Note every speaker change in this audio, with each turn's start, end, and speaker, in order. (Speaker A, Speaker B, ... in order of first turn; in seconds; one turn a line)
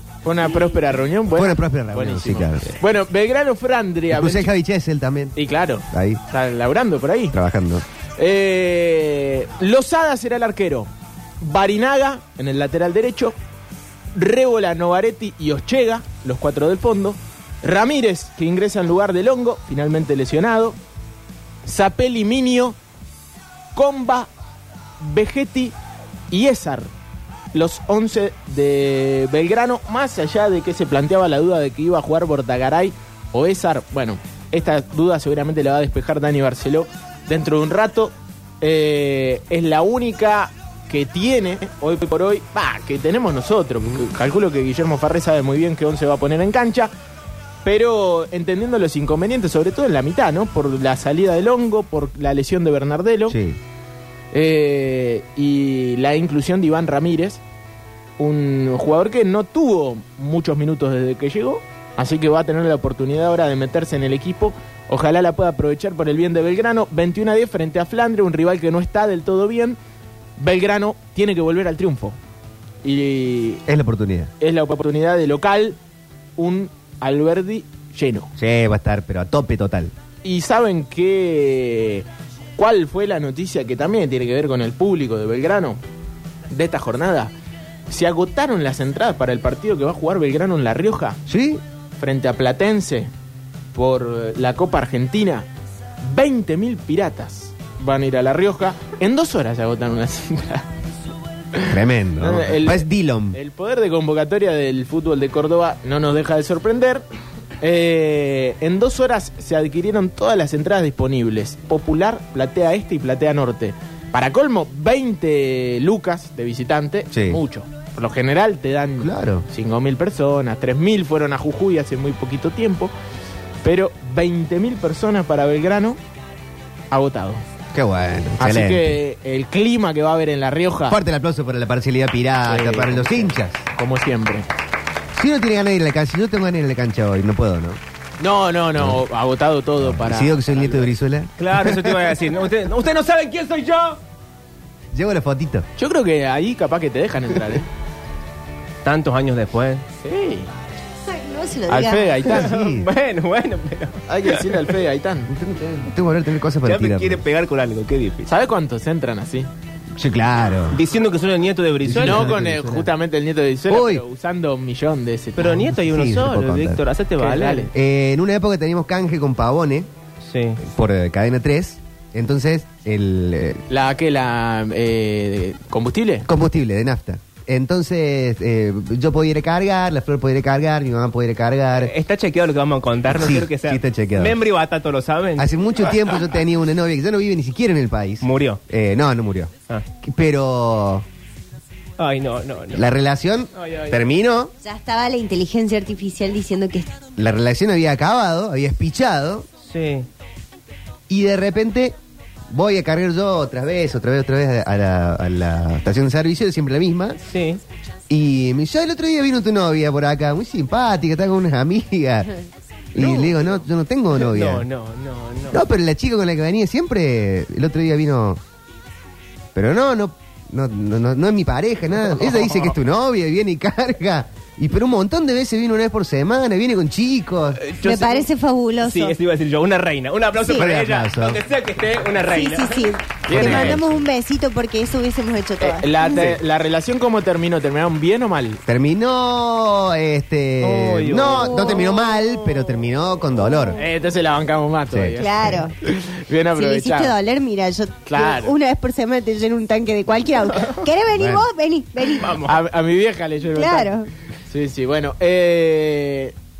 Speaker A: 0.2-4.5
Speaker B: 1.3-2.7
Speaker B: 4.1-5.3
Speaker A: 5.4-7.3
Speaker B: 5.9-6.2
Speaker B: 7.3-7.8
Speaker A: 8.2-13.4
Speaker A: 14.1-20.8
Speaker A: 21.6-22.8
Speaker A: 23.8-24.3
Speaker A: 25.0-25.7
Speaker A: 26.3-26.9
Speaker A: 27.5-46.9
Speaker A: 47.6-53.4
Speaker B: 53.3-53.6
Speaker A: 54.3-57.4
Speaker A: 58.2-69.8
Speaker A: 70.4-72.2
Speaker A: 72.8-73.6
Speaker B: 73.7-74.3
Speaker A: 74.4-75.8
Speaker A: 76.4-78.3
Speaker B: 78.4-79.9
Speaker A: 80.2-82.1
Speaker A: 82.6-85.8
Speaker A: 86.5-87.3
Speaker A: 87.9-91.2
Speaker B: 91.3-91.6
Speaker A: 92.0-93.1
Speaker A: 93.7-95.5
Speaker A: 96.0-100.7
Speaker A: 101.6-107.1
Speaker B: 101.7-103.4
Speaker A: 107.6-122.9
Speaker B: 117.1-117.4
Speaker B: 119.0-119.5
Speaker A: 123.6-126.0
Speaker A: 126.9-127.4
Speaker B: 127.7-129.0
Speaker A: 128.4-131.0
Speaker B: 130.9-133.6
Speaker A: 132.5-134.5
Speaker B: 135.2-137.8
Speaker A: 138.2-140.9
Speaker B: 139.8-142.2
Speaker C: 141.4-144.0
Speaker B: 144.9-145.7
Speaker A: 145.8-147.7
Speaker C: 148.8-149.8
Speaker A: 150.0-150.5
Speaker D: 151.1-152.3
Speaker A: 151.7-152.5
Speaker B: 152.3-152.9
Speaker C: 152.3-154.7
Speaker A: 154.1-155.3
Speaker B: 155.3-157.2
Speaker C: 156.7-158.3
Speaker A: 158.3-159.5
Speaker B: 160.0-160.8
Speaker C: 160.7-162.4
Speaker B: 161.8-162.9
Speaker A: 162.0-165.6
Speaker B: 163.7-164.0
Speaker C: 165.4-167.7
Speaker B: 165.5-166.8
Speaker A: 167.2-167.7
Speaker B: 167.7-169.9
Speaker C: 170.3-170.6
Speaker B: 170.6-173.6
Speaker A: 173.7-176.3
Speaker B: 176.3-181.9
Speaker C: 181.8-185.5
Speaker B: 183.1-184.4
Speaker B: 185.4-191.0
Speaker C: 188.2-188.6
Speaker C: 192.0-192.9
Speaker B: 192.7-194.5
Speaker C: 193.6-194.0
Speaker D: 194.6-197.0
Speaker B: 197.2-199.5
Speaker C: 199.7-200.1
Speaker B: 201.1-202.0
Speaker B: 202.5-207.2
Speaker C: 207.3-207.6
Speaker B: 208.1-212.3
Speaker B: 212.9-214.7
Speaker C: 213.0-213.3
Speaker C: 214.2-215.6
Speaker B: 215.5-218.4
Speaker B: 219.6-227.6
Speaker C: 222.1-222.8
Speaker C: 227.6-228.3
Speaker D: 227.8-229.2
Speaker C: 228.8-233.8
Speaker B: 230.5-231.4
Speaker D: 232.2-236.4
Speaker A: 233.3-233.8
Speaker B: 233.3-234.0
Speaker A: 235.6-238.6
Speaker B: 238.7-243.8
Speaker C: 240.6-241.9
Speaker D: 241.6-242.0
Speaker A: 243.8-247.1
Speaker B: 244.9-245.6
Speaker D: 245.2-245.7
Speaker D: 246.5-252.4
Speaker A: 248.1-248.6
Speaker B: 251.1-251.4
Speaker C: 252.0-252.5
Speaker A: 252.4-253.9
Speaker D: 253.6-254.1
Speaker A: 254.5-256.3